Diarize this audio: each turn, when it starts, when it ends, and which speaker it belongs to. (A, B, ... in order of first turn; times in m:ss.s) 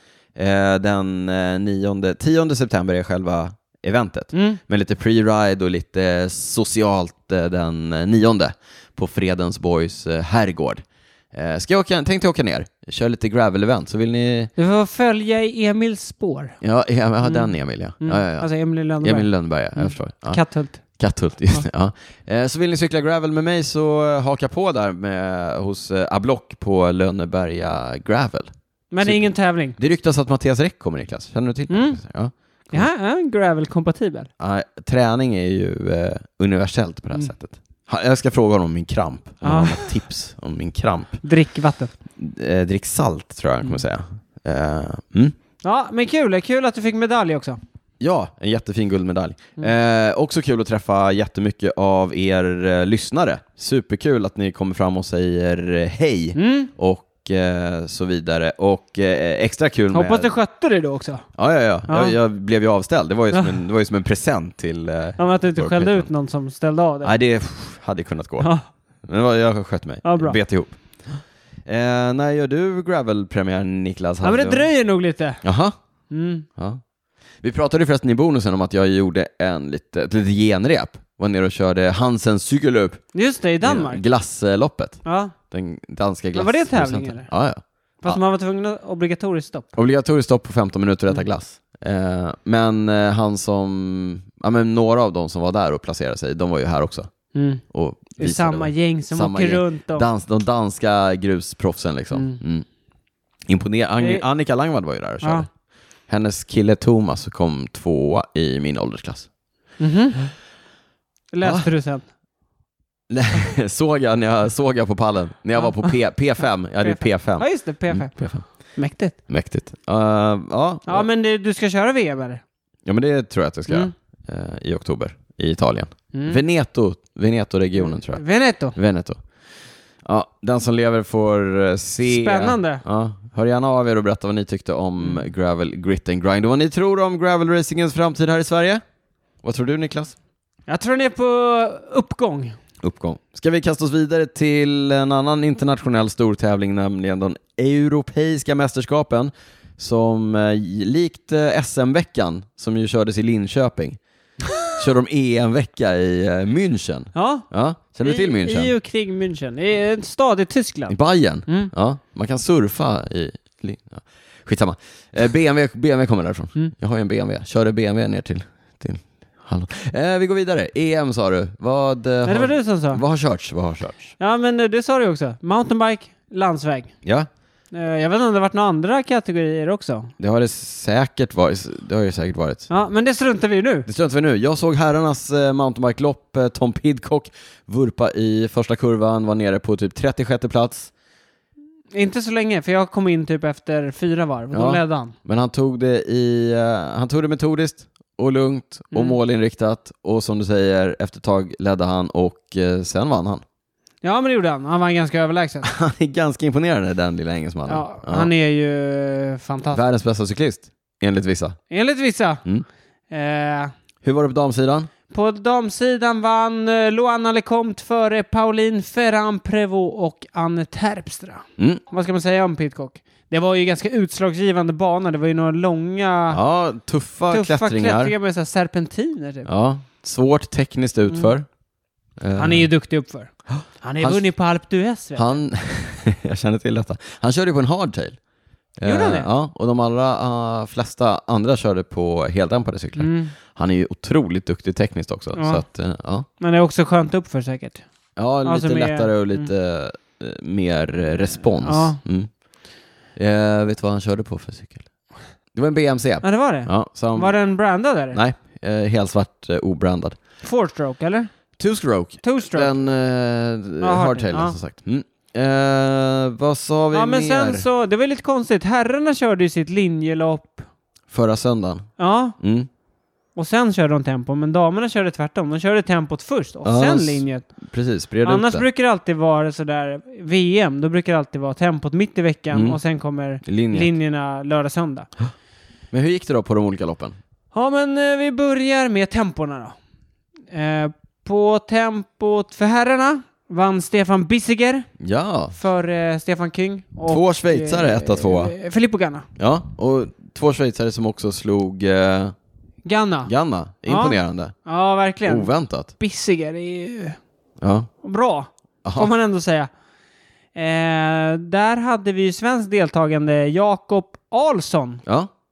0:00.4-0:14.5 A
0:04.3-0:04.6 B
0:14.6-0:16.6 B
0:16.6-0:18.5 A
0:17.2-0:20.8 B
0:19.0-0:20.4 A
0:21.0-0:32.8 A
0:28.9-0:29.8 B
0:31.7-0:32.0 B
0:32.7-0:34.3 B
0:34.4-0:41.2 A
0:39.4-0:39.9 B
0:41.2-0:41.9 B
0:42.2-0:45.3 A
0:45.6-0:47.6 B
0:48.0-1:00.3 A
0:56.4-0:56.7 B
0:59.9-1:01.2 B
1:01.4-1:06.1 A
1:01.9-1:02.1 B
1:03.3-1:03.6 B
1:05.2-1:07.1 B
1:07.0-1:08.5 A
1:08.4-1:08.6 B
1:09.0-1:10.8 A
1:10.0-1:10.4 B
1:11.7-1:14.7 A
1:14.2-1:15.4 B
1:15.4-1:15.7 A
1:16.1-1:16.5 B
1:17.4-1:23.0 A
1:23.1-1:24.0 B
1:23.6-1:28.2 A
1:25.0-1:25.3 B
1:26.3-1:27.3 B
1:28.0-1:29.7 B
1:29.7-1:37.1 A
1:37.3-1:37.6 B
1:37.7-1:42.6 A
1:38.2-1:40.1 B
1:42.1-1:42.4 B
1:43.5-1:45.5 A
1:46.1-1:49.3 A
1:49.8-1:50.3 B
1:51.3-1:52.0 B
1:51.4-1:51.7 A
1:53.1-1:58.5 A
1:55.6-1:55.9 B
1:56.8-1:58.2 B
1:58.7-1:59.2 B
1:59.3-2:01.1 A
2:00.8-2:02.4 B
2:02.8-2:08.2 A
2:06.1-2:06.4 B
2:07.8-2:08.8 B
2:08.7-2:09.2 A
2:10.0-2:18.8 A
2:12.0-2:12.8 B
2:19.4-2:20.2 A
2:20.7-2:22.6 B
2:22.8-2:34.0 A
2:34.6-2:38.7 A
2:37.1-2:37.4 B
2:38.0-2:40.9 B
2:40.9-2:54.1 A
2:52.2-2:53.0 B
2:54.2-2:56.9 B
2:57.7-3:00.1 B
3:00.2-3:02.7 A
3:02.7-3:03.9 B
3:03.8-3:10.9 A
3:11.9-3:15.1 B
3:14.5-3:23.4 A
3:18.9-3:19.2 B
3:24.0-3:25.7 B
3:25.6-3:28.3 A
3:27.7-3:29.8 B
3:29.7-3:31.6 A
3:31.7-3:32.4 B
3:33.1-3:33.7 B
3:34.0-3:34.9 A
3:35.1-3:46.4 B
3:46.3-3:48.1 A
3:47.3-3:49.5 B
3:49.4-3:51.4 A
3:52.2-3:52.7 A
3:52.4-3:53.3 B
3:53.5-3:54.2 A
3:53.8-3:55.3 B
3:55.2-3:58.2 A
3:58.8-4:06.3 A
3:58.8-3:59.3 B
4:03.0-4:03.3 B
4:05.3-4:05.6 B
4:06.4-4:07.8 B
4:08.2-4:12.3 A
4:08.4-4:09.5 B
4:11.6-4:12.0 B
4:13.2-4:14.8 A
4:15.5-4:17.3 A
4:16.2-4:18.2 B
4:18.1-4:20.2 A
4:20.4-4:21.3 B
4:21.6-4:27.6 A
4:22.2-4:22.7 B
4:23.8-4:24.6 B
4:26.9-4:30.7 B
4:31.1-4:31.9 A
4:32.0-4:32.4 B
4:32.4-4:32.7 A
4:33.4-4:37.5 B
4:36.6-4:38.6 A
4:38.2-4:45.1 B
4:42.5-4:42.8 A
4:43.4-4:43.9 A
4:45.9-4:47.2 A
4:47.5-4:49.7 B
4:50.5-4:54.9 B
4:55.0-4:55.6 A
4:55.5-4:59.2 B
4:57.1-4:58.5 A
4:59.4-5:02.3 A
5:02.8-5:03.3 B
5:03.2-5:04.5 A
5:03.9-5:07.2 B
5:05.2-5:05.9 A
5:07.6-5:07.9 A
5:08.0-5:09.7 B
5:08.8-5:09.1 A
5:10.5-5:15.0 B